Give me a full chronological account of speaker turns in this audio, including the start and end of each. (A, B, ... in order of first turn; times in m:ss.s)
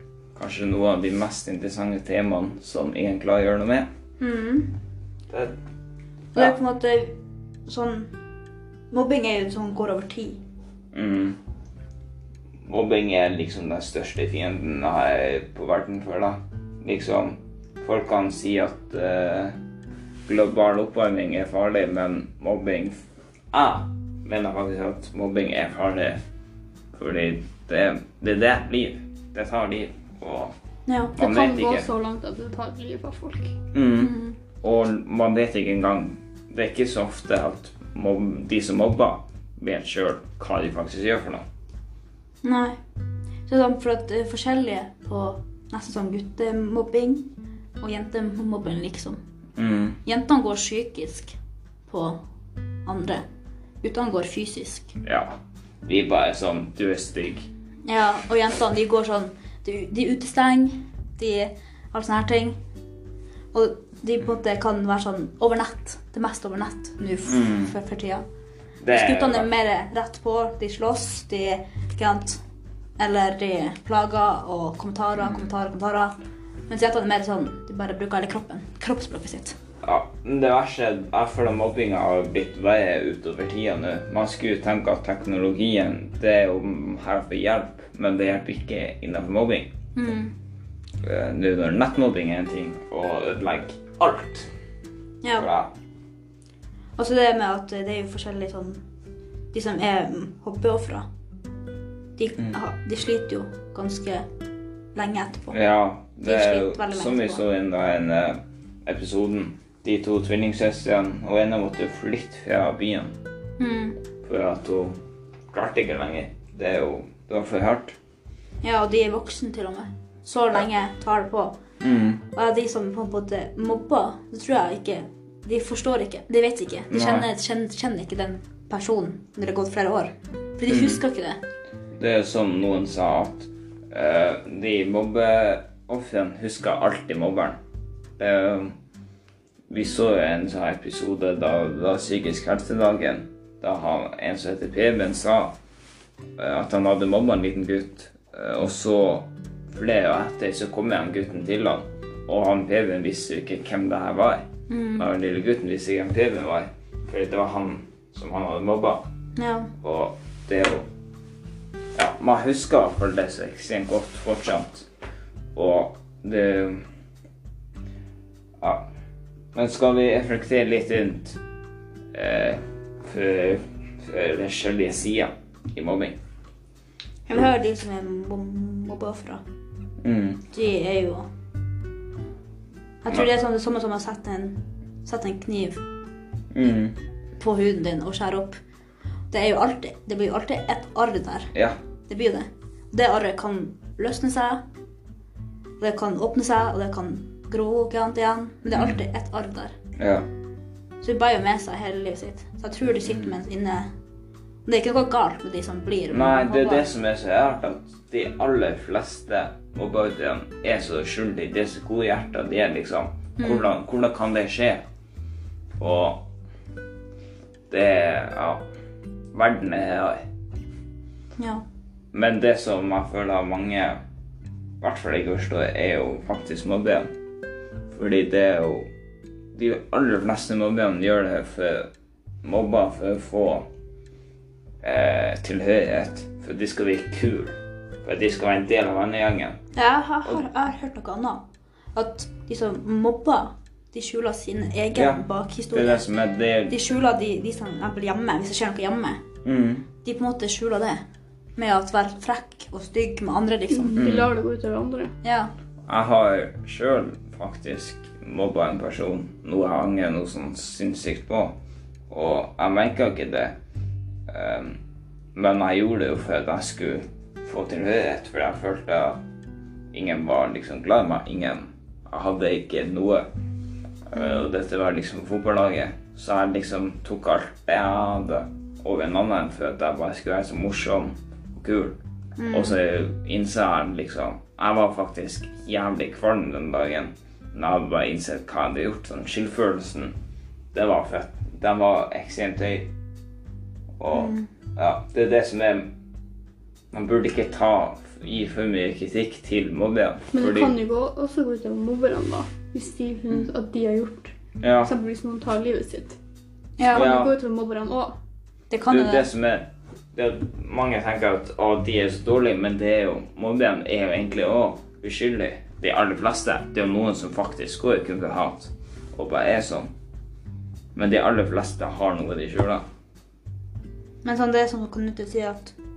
0:00.4-0:03.9 A
0:04.2-0:04.8 B
0:06.3-0:07.2 B
0:07.7-0:08.2 B
0:08.9-0:10.4 B
0:10.9-0:11.4 A
0:12.6-0:19.6 A
0:20.3-0:22.9 A
0:23.5-0:26.2 A
0:26.9-0:30.5 A
0:30.9-0:31.1 B
0:31.2-0:33.6 C
0:31.2-0:31.9 A
0:33.7-0:41.4 A
0:34.0-0:34.4 B
0:42.4-0:42.8 B
0:43.5-0:49.2 B
0:49.6-0:50.0 A
0:50.0-0:51.4 B
0:51.9-0:52.2 B
0:52.8-0:53.2 B
0:53.8-0:54.9 B
0:55.0-0:55.3 A
0:55.8-0:57.5 A
0:57.8-1:02.6 B
1:03.5-1:08.2 B
1:07.2-1:07.7 A
1:08.8-1:09.5 A
1:08.9-1:12.4 B
1:13.0-1:16.1 B
1:15.2-1:15.5 A
1:16.7-1:19.6 B
1:19.8-1:29.7 A
1:29.9-1:30.3 B
1:31.0-1:34.5 A
1:35.2-1:35.5 B
1:35.4-1:35.7 A
1:37.0-1:38.8 B
1:39.5-1:41.0 B
1:42.2-1:44.2 B
1:44.9-1:45.6 B
1:45.5-1:53.1 A
1:46.2-1:47.4 B
1:53.6-1:54.0 B
1:54.2-1:55.0 A
1:55.5-1:58.0 A
1:58.6-2:01.5 B
2:01.8-2:02.2 A
2:02.3-2:11.4 B
2:06.9-2:07.3 A
2:10.7-2:11.0 A
2:12.0-2:17.6 A
2:18.2-2:18.7 A
2:19.7-2:25.5 A
2:26.4-2:34.4 A
2:34.7-2:35.1 B
2:35.0-2:39.0 A
2:39.4-2:39.7 B
2:39.8-2:40.8 A
2:42.0-2:44.9 A
2:45.5-2:46.8 A
2:49.5-2:51.4 A
2:52.1-2:56.2 A
2:57.3-2:59.4 B
3:00.0-3:00.4 A
3:00.5-3:01.2 B
3:03.0-3:05.8 B
3:06.5-3:06.9 A
3:07.4-3:08.6 B
3:09.3-3:11.5 B
3:12.1-3:14.6 B
3:15.8-3:19.7 B
3:18.7-3:19.0 A
3:20.0-3:20.2 A
3:21.0-3:23.9 B
3:24.6-3:26.9 B
3:26.1-3:34.8 A
3:33.4-3:33.7 B
3:35.8-3:36.2 A
3:37.7-3:38.6 A
3:39.3-3:40.2 A
3:41.4-3:41.6 B
3:42.1-3:44.0 A
3:44.8-3:47.1 A
3:47.9-3:48.9 A
3:49.5-3:51.9 A
3:52.4-3:53.7 A
3:54.8-3:59.6 A
3:59.7-4:06.0 B
4:04.9-4:06.8 A
4:06.7-4:09.2 B
4:09.4-4:09.8 A
4:10.0-4:11.0 B
4:11.6-4:14.0 B
4:13.7-4:15.1 C
4:14.0-4:14.3 A
4:15.2-4:15.5 B
4:15.9-4:21.5 A
4:22.1-4:23.5 A
4:24.3-4:24.8 A
4:25.3-4:29.2 A
4:29.9-4:33.2 A
4:34.1-4:42.0 A
4:34.1-4:34.5 B
4:42.4-4:42.8 B
4:42.5-4:50.1 A
4:50.7-4:52.9 A
4:54.0-4:55.9 A
4:54.1-4:54.5 B
4:56.9-5:00.7 A
5:00.3-5:06.2 C
5:04.6-5:04.9 A
5:06.8-5:07.1 B
5:06.8-5:08.2 C
5:06.9-5:07.3 A
5:08.7-5:09.3 B
5:08.9-5:19.9 A
5:20.9-5:22.8 A
5:24.2-5:25.7 B